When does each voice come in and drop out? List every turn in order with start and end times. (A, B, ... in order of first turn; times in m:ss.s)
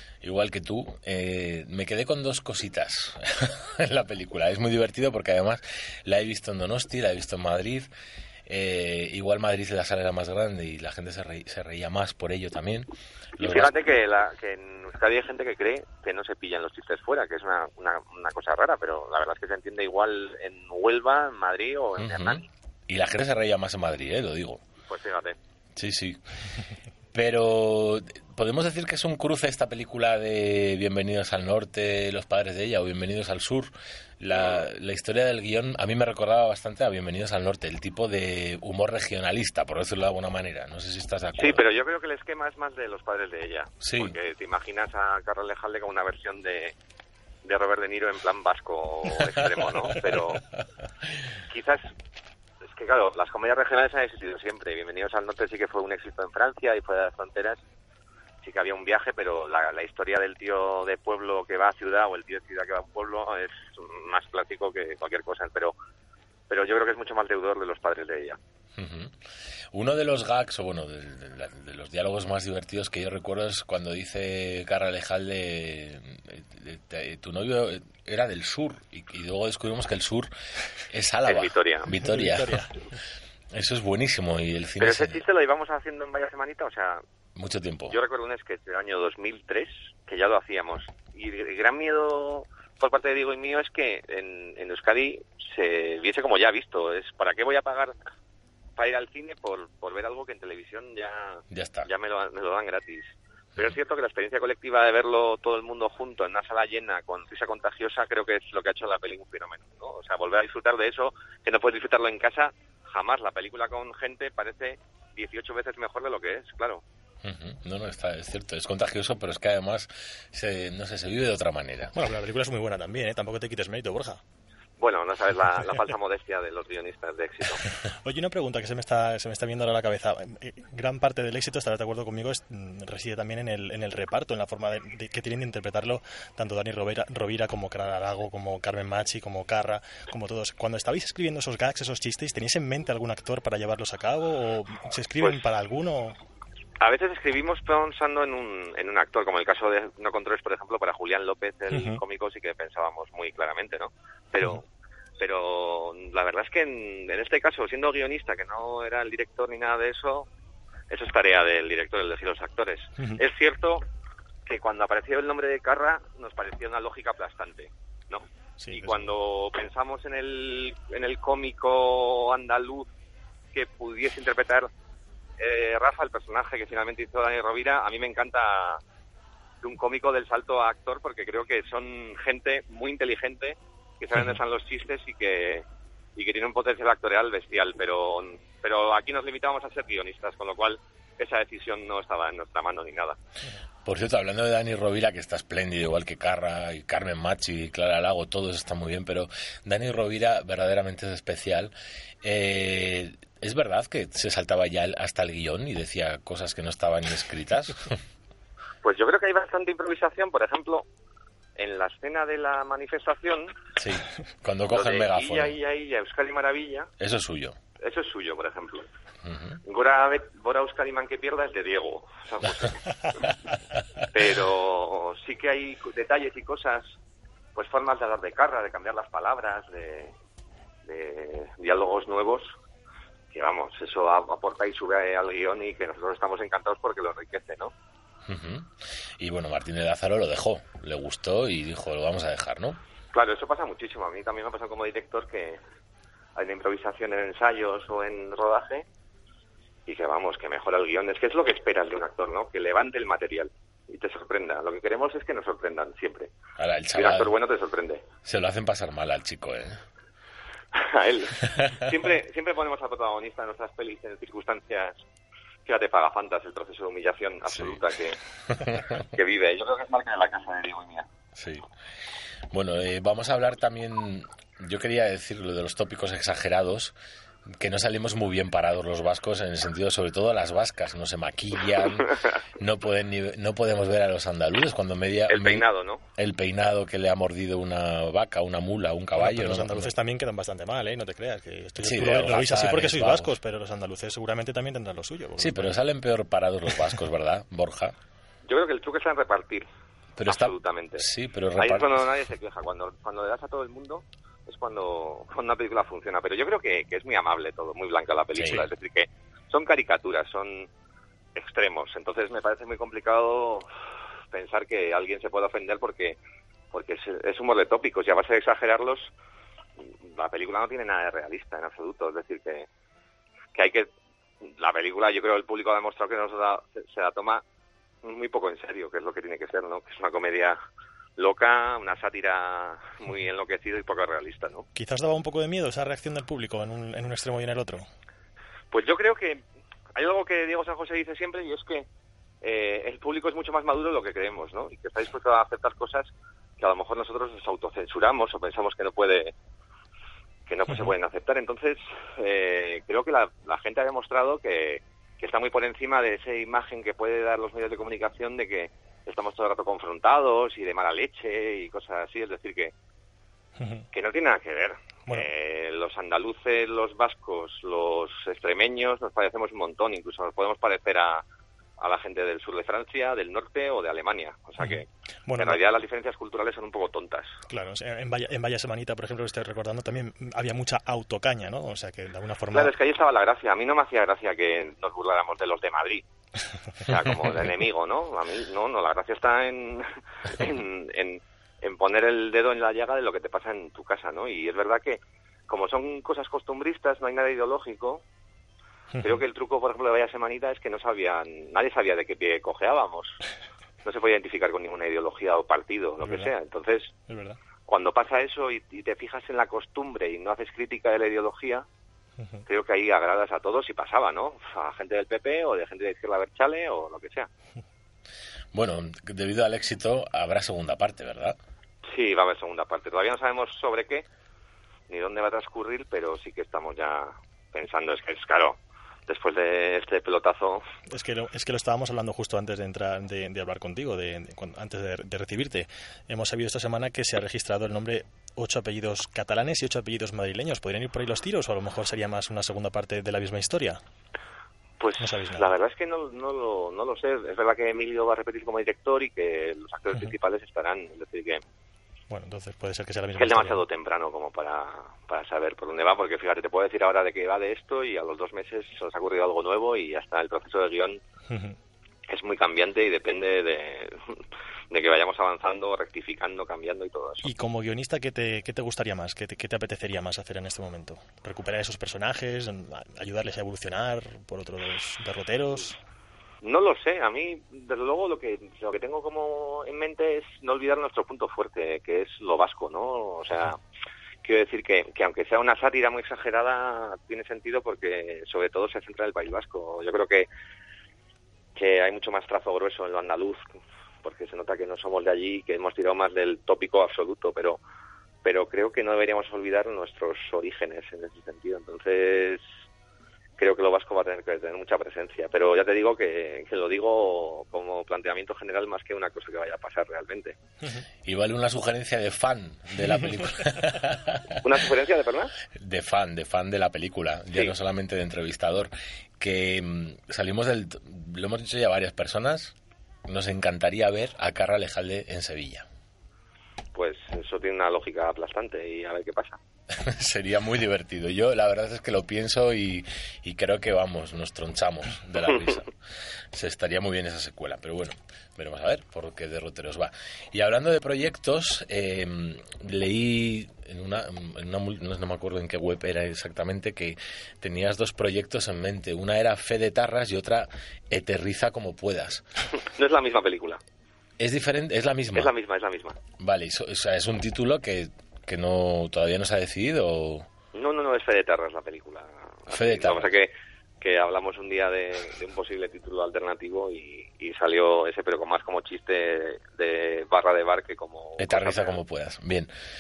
0:00.2-0:07.9 A
0:08.5-0:13.8 A
0:13.4-0:22.4 B
0:22.0-0:24.6 A
0:24.9-0:25.4 B
0:25.8-0:26.2 A
0:27.1-0:41.7 A
0:34.3-0:34.6 B
0:41.4-0:46.7 B
0:43.8-0:44.2 A
0:47.4-0:50.4 B
0:50.0-0:50.4 A
0:51.5-0:51.9 B
0:52.7-0:57.6 B
0:58.4-1:05.7 B
1:06.5-1:08.4 B
1:08.8-1:09.2 A
1:09.7-1:20.3 A
1:20.9-1:22.7 A
1:21.3-1:21.9 B
1:21.9-1:22.7 C
1:23.5-1:25.2 A
1:24.8-1:27.0 B
1:27.4-1:28.0 A
1:27.9-1:38.0 B
1:38.8-1:56.8 B
1:41.5-1:41.9 A
1:57.2-2:01.9 A
2:02.0-2:04.2 C
2:04.8-2:07.6 B
2:08.0-2:26.2 C
2:26.8-2:34.6 B
2:31.7-2:32.0 C
2:35.2-2:40.3 B
2:40.9-2:43.8 B
2:44.5-2:52.9 B
2:48.6-2:49.1 C
2:53.5-2:54.7 B
2:55.4-2:58.8 B
2:59.6-3:05.6 B
3:06.2-3:13.2 B
3:13.8-3:28.0 A
3:28.8-3:30.9 B
3:31.6-3:33.5 B
3:33.8-3:35.6 A
3:34.7-3:36.9 B
3:37.0-3:37.6 A
3:37.8-3:38.9 B
3:39.2-3:39.6 A
3:39.6-3:42.8 B
3:44.1-3:47.0 B
3:47.6-3:50.1 B
3:50.9-3:52.5 B
3:53.3-3:57.7 B
3:58.3-4:02.8 A
4:03.1-4:05.6 B
4:06.4-4:08.8 B
4:09.9-4:16.3 B
4:16.6-4:17.3 A
4:17.0-4:18.0 B
4:18.2-4:19.8 A
4:20.8-4:25.0 B
4:25.7-4:28.2 B
4:27.5-4:27.8 A
4:28.5-4:29.0 A
4:29.0-4:31.1 B
4:31.4-4:31.7 A
4:32.5-4:37.0 A
4:37.5-4:49.9 A
4:45.3-4:46.0 B
4:49.2-4:55.8 C
4:51.8-4:53.3 A
4:55.4-4:58.0 A
4:58.5-4:59.7 B
5:00.2-5:02.1 A
5:00.3-5:01.1 B
5:01.6-5:10.7 B
5:08.4-5:08.7 A
5:11.4-5:13.7 B
5:14.3-5:16.2 B
5:16.7-5:19.1 B
5:20.1-5:22.7 B
5:23.6-5:23.9 B
5:24.4-5:27.4 B
5:28.0-5:30.6 B
5:31.2-5:34.7 B
5:34.8-5:37.9 C
5:38.7-5:39.4 B
5:40.0-5:41.9 B
5:42.4-5:46.1 B
5:46.6-5:49.3 B
5:50.5-6:02.7 B
6:03.6-6:03.8 C
6:03.9-6:11.2 B
6:11.8-6:17.3 B
6:14.6-6:15.6 C
6:17.5-6:22.7 C
6:22.5-6:26.0 B
6:26.8-6:38.0 B
6:38.9-6:39.2 C
6:39.0-6:43.2 B
6:43.8-6:46.9 B
6:46.0-6:46.3 C
6:47.1-6:47.4 C
6:47.7-6:51.6 B
6:52.5-6:57.3 B
6:58.5-7:01.4 A
7:01.9-7:04.1 B
7:04.9-7:10.7 B
7:10.9-7:23.8 C
7:24.8-7:31.4 B
7:25.0-7:25.5 C
7:32.1-7:33.6 C
7:33.2-7:41.0 B
7:41.3-7:41.6 C
7:42.1-7:44.2 B
7:44.7-7:47.3 B
7:47.2-7:55.8 C
7:56.4-8:03.6 B
8:04.2-8:10.3 B
8:11.6-8:13.4 B
8:14.0-8:17.6 B
8:18.2-8:22.4 B
8:23.4-8:30.4 B
8:31.0-8:34.4 A
8:34.4-8:35.3 B
8:35.5-8:42.6 A
8:43.1-8:45.7 A
8:46.7-8:49.4 B
8:49.7-8:55.7 A
8:56.3-9:12.2 A
9:12.6-9:13.6 B
9:14.2-9:15.3 A
9:15.1-9:16.0 B
9:16.2-9:20.3 A
9:20.5-9:31.8 B
9:22.5-9:23.1 A
9:31.2-9:32.5 A